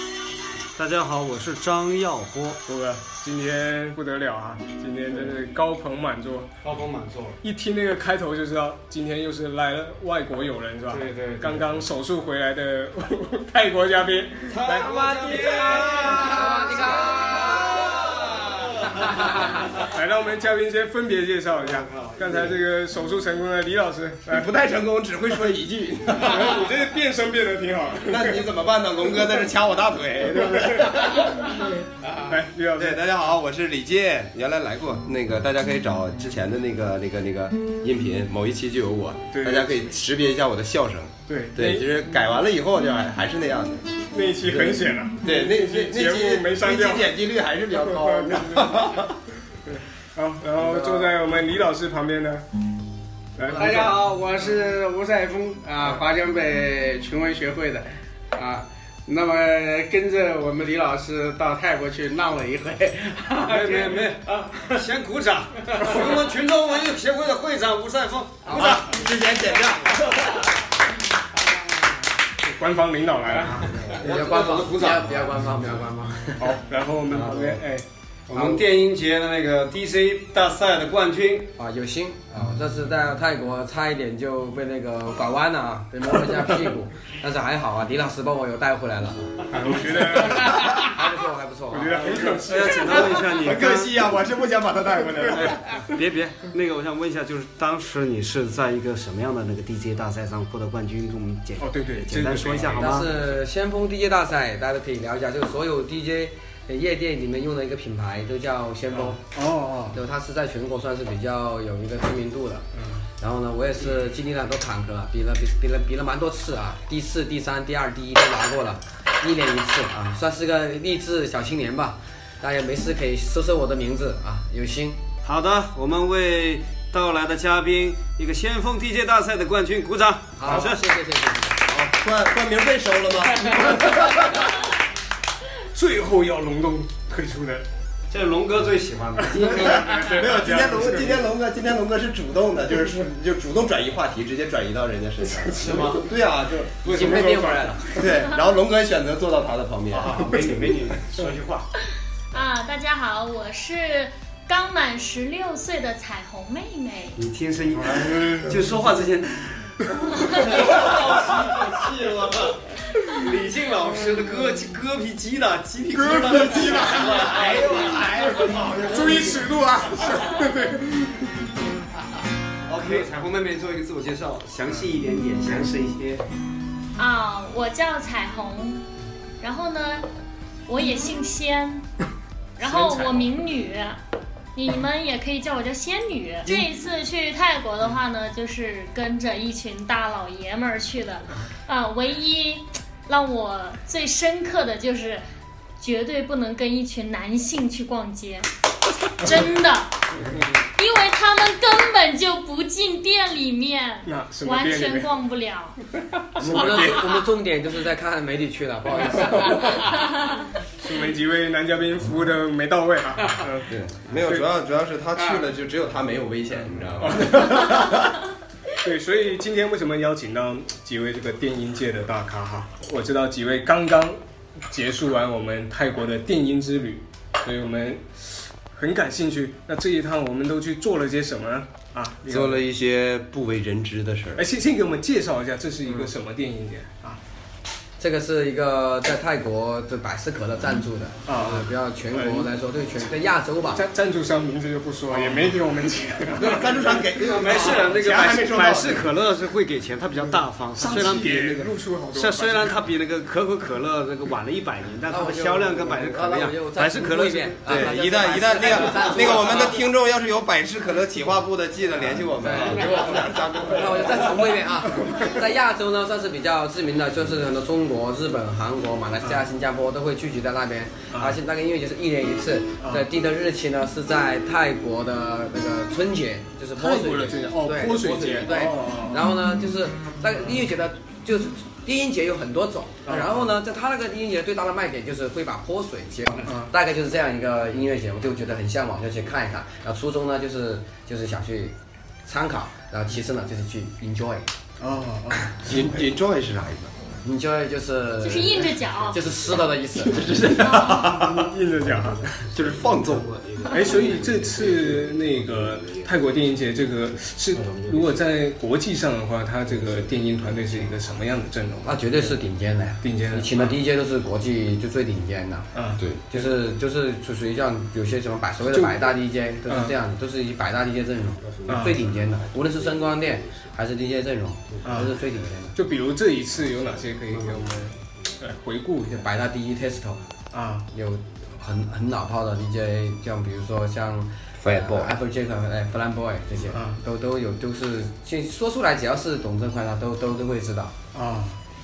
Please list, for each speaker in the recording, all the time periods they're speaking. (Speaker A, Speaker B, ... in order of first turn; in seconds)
Speaker A: 0.7-2.6, 6.6-7.4, 10.9-11.6, 14.5-19.8, 21.5-22.6, 63.4-68.9, 73.7-75.7, 77.1-77.6, 78.3-81.5, 92.0-94.0, 95.3-103.1, 125.2-130.8, 138.1-140.3, 145.6-146.1, 146.8-147.4, 149.9-151.7, 157.2-169.5, 172.7-176.2, 247.1-259.3, 301.8-306.2, 307.5-308.3, 309.7-310.1, 321.5-322.0, 322.8-323.6, 327.3-327.7
Speaker B: 2.6-6.5, 7.4-16.1, 19.7-24.5, 26.1-28.4, 30.4-33.1, 39.3-39.8, 41.3-41.9, 44.1-47.1, 47.7-49.1, 49.6-52.4, 53.4-54.0, 72.4-74.1, 76.4-77.8, 89.5-90.9, 91.7-93.3, 95.0-95.5, 101.6-103.1, 108.9-110.0, 112.8-113.0, 135.7-137.6, 139.2-141.2, 145.3-145.9, 146.9-148.0, 157.9-158.5, 165.9-167.5, 168.8-171.2, 182.6-183.3, 204.0-205.1, 206.2-207.3, 209.0-209.8, 210.8-214.4, 216.9-218.0, 218.7-232.6, 234.3-237.2, 241.3-242.5, 243.7-247.0, 250.8-252.8, 271.1-271.4, 272.8-273.1, 276.8-279.4, 283.0-283.5, 286.4-286.7, 294.8-295.6, 300.7-302.4, 303.7-312.4, 313.0-313.8, 315.7-316.5, 318.7-319.0, 319.7-319.9, 321.7-322.0, 324.8-325.1, 325.7-329.3, 330.5-330.9, 336.7-337.0, 341.1-341.6
Speaker C: 14.9-18.0, 19.0-19.3, 53.4-53.9, 68.5-68.7, 73.9-76.5, 78.3-78.6, 81.6-92.3, 102.8-109.2, 109.9-112.7, 113.2-125.0, 130.4-131.6, 146.8-148.1, 206.4-209.9, 238.0-243.8, 255.1-259.9, 262.3-291.7, 292.2-294.5, 297.2-300.4, 311.8-315.7, 316.3-325.8, 329.1-330.2, 330.9-340.9
Speaker D: 24.3-26.6, 28.0-31.5, 32.8-49.1, 68.5-70.4, 92.6-95.6, 131.6-134.4, 139.5-147.1, 147.9-150.2, 213.7-218.2, 232.3-234.4, 246.3-249.1, 257.6-264.4, 295.6-296.9, 300.0-301.5, 302.5-303.3, 334.6-335.1
Speaker E: 32.0-32.4, 53.5-64.6
Speaker F: 152.3-157.2, 177.0-178.8, 179.4-180.1, 180.7-181.9, 182.6-184.0, 184.5-195.2, 195.8-198.5, 199.1-200.1, 200.8-205.8, 298.2-299.2, 300.5-301.1